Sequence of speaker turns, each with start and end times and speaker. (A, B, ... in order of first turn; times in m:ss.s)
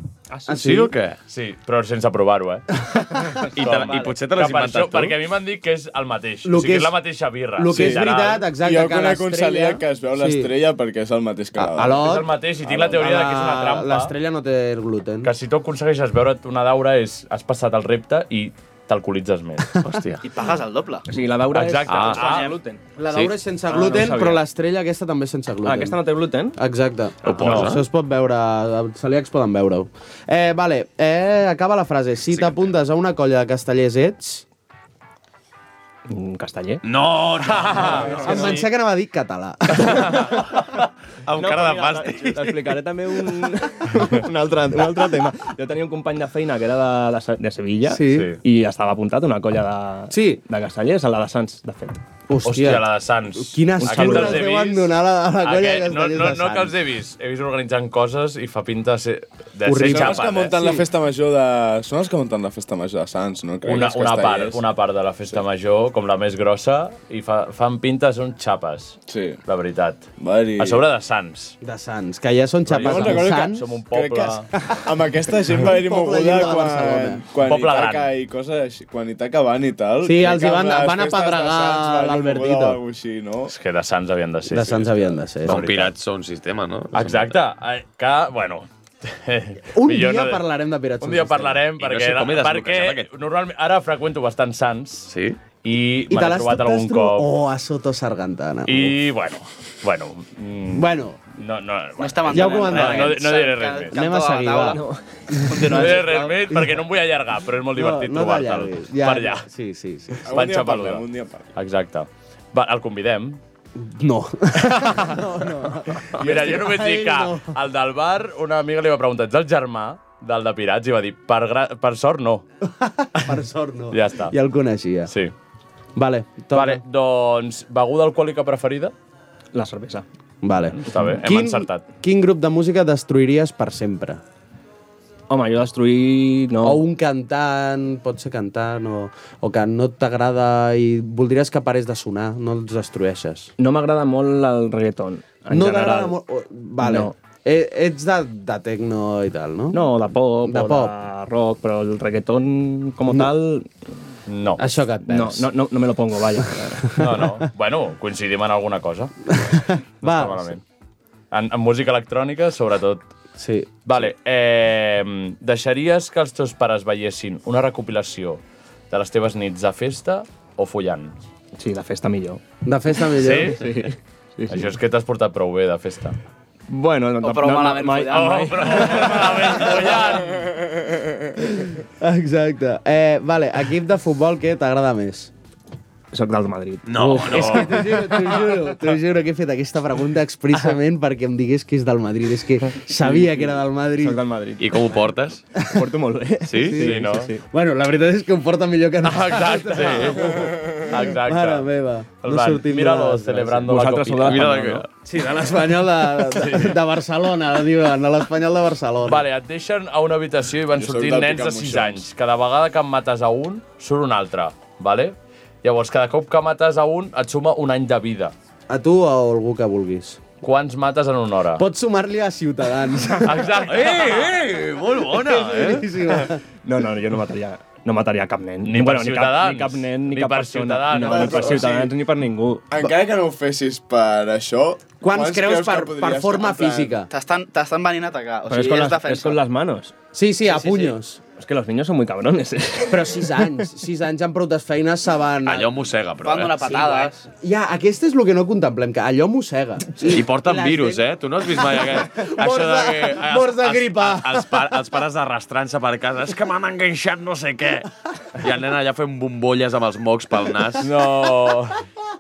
0:00.3-0:00.8 A
0:00.5-0:01.0 B
0:00.6-0:01.2 C
0:01.3-0:02.7 D
0:02.9-0:03.4 B
0:03.6-0:05.1 C
0:03.6-0:08.5 D
0:06.4-0:07.0 B
0:07.6-0:10.5 B
0:07.7-0:12.1 E
0:11.6-0:15.3 B
0:12.0-0:14.1 D
0:15.2-0:19.8 D
0:19.9-0:20.2 C
0:20.2-0:21.1 F
0:21.1-0:22.8 A
0:21.5-0:22.5 D
0:21.9-0:22.2 C
0:22.2-0:22.5 F
0:23.0-0:26.0 B
0:23.7-0:24.4 A
0:25.6-0:26.6 A
0:26.6-0:34.4 B
0:27.2-0:27.8 C
0:27.4-0:27.8 D
0:36.1-0:36.8 A
0:36.8-0:38.1 C
0:37.4-0:38.6 D
0:37.9-0:38.5 A
0:37.9-0:40.5 B
0:39.8-0:40.3 D
0:41.3-0:42.4 C
0:41.4-0:52.0 A
0:47.9-0:48.4 B
0:48.1-0:48.4 D
0:50.1-0:50.4 B
0:52.3-0:56.7 B
0:52.4-1:00.6 D
0:53.8-0:54.5 A
0:59.6-1:00.8 B
0:59.8-1:04.6 E
1:03.6-1:11.6 D
1:09.1-1:09.4 E
1:10.2-1:10.8 E
1:11.6-1:13.7 B
1:12.7-1:14.5 D
1:12.7-1:23.5 E
1:15.6-1:17.2 B
1:17.5-1:18.1 D
1:20.0-1:22.8 B
1:23.5-1:25.9 D
1:24.5-1:25.7 B
1:25.4-1:27.4 C
1:26.9-1:30.4 D
1:29.8-1:31.6 B
1:31.0-1:35.1 D
1:31.8-1:33.1 C
1:35.1-1:35.4 C
1:35.6-1:37.3 D
1:36.1-1:39.0 B
1:38.7-1:44.0 D
1:40.7-1:41.2 B
1:42.0-1:44.8 F
1:42.3-1:43.2 B
1:43.9-1:44.8 B
1:44.7-1:45.5 A
1:45.3-1:46.8 B
1:45.4-1:46.4 F
1:45.6-1:49.4 D
1:47.7-1:50.3 B
1:50.2-1:51.5 E
1:50.3-1:53.4 D
1:53.8-1:57.6 B
1:54.6-1:55.2 D
1:56.0-2:02.4 D
2:02.7-2:05.1 B
2:03.9-2:04.4 D
2:05.1-2:05.3 D
2:06.0-2:06.8 B
2:06.5-2:08.9 D
2:09.5-2:10.1 A
2:10.4-2:14.2 B
2:10.8-2:11.8 D
2:15.3-2:16.8 A
2:16.6-2:23.5 B
2:23.6-2:26.2 A
2:25.5-2:30.9 B
2:26.8-2:27.1 A
2:29.7-2:33.7 A
2:34.3-2:34.6 D
2:34.6-2:35.5 B
2:35.1-2:37.0 A
2:37.0-2:37.2 B
2:37.0-2:39.1 D
2:39.3-2:40.5 B
2:40.0-2:40.6 D
2:41.3-2:43.0 D
2:43.4-2:44.1 B
2:43.9-2:51.1 D
2:51.6-2:52.4 A
2:52.6-2:53.7 B
2:53.2-2:53.7 D
2:53.4-2:54.7 A
2:54.5-2:56.2 D
2:56.7-2:59.4 A
2:57.2-3:00.0 F
2:58.1-3:00.5 D
3:01.4-3:05.3 B
3:06.1-3:07.6 A
3:06.9-3:07.8 C
3:07.0-3:14.2 B
3:13.0-3:14.9 A
3:14.6-3:15.4 C
3:15.7-3:17.4 A
3:16.5-3:16.8 C
3:16.6-3:23.8 B
3:16.8-3:17.3 D
3:19.0-3:21.7 D
3:22.2-3:24.6 D
3:23.7-3:24.9 A
3:24.3-3:24.8 C
3:25.0-3:29.2 B
3:26.2-3:26.8 D
3:29.1-3:38.3 D
3:30.7-3:32.0 E
3:38.7-3:40.2 B
3:40.4-3:41.6 D
3:41.6-3:44.1 B
3:43.2-3:44.2 D
3:43.7-3:45.9 C
3:45.1-3:46.4 B
3:46.6-3:52.8 A
3:48.6-3:51.7 D
3:51.0-3:51.9 E
3:52.7-3:57.0 E
3:55.0-3:57.1 B
3:57.1-3:59.4 F
3:58.5-3:59.9 A
4:00.1-4:01.2 B
4:00.5-4:00.9 F
4:01.4-4:03.4 A
4:02.9-4:05.8 B
4:05.5-4:06.7 C
4:06.2-4:07.2 F
4:06.6-4:14.6 B
4:10.1-4:17.8 C
4:18.4-4:20.9 C
4:20.8-4:21.8 D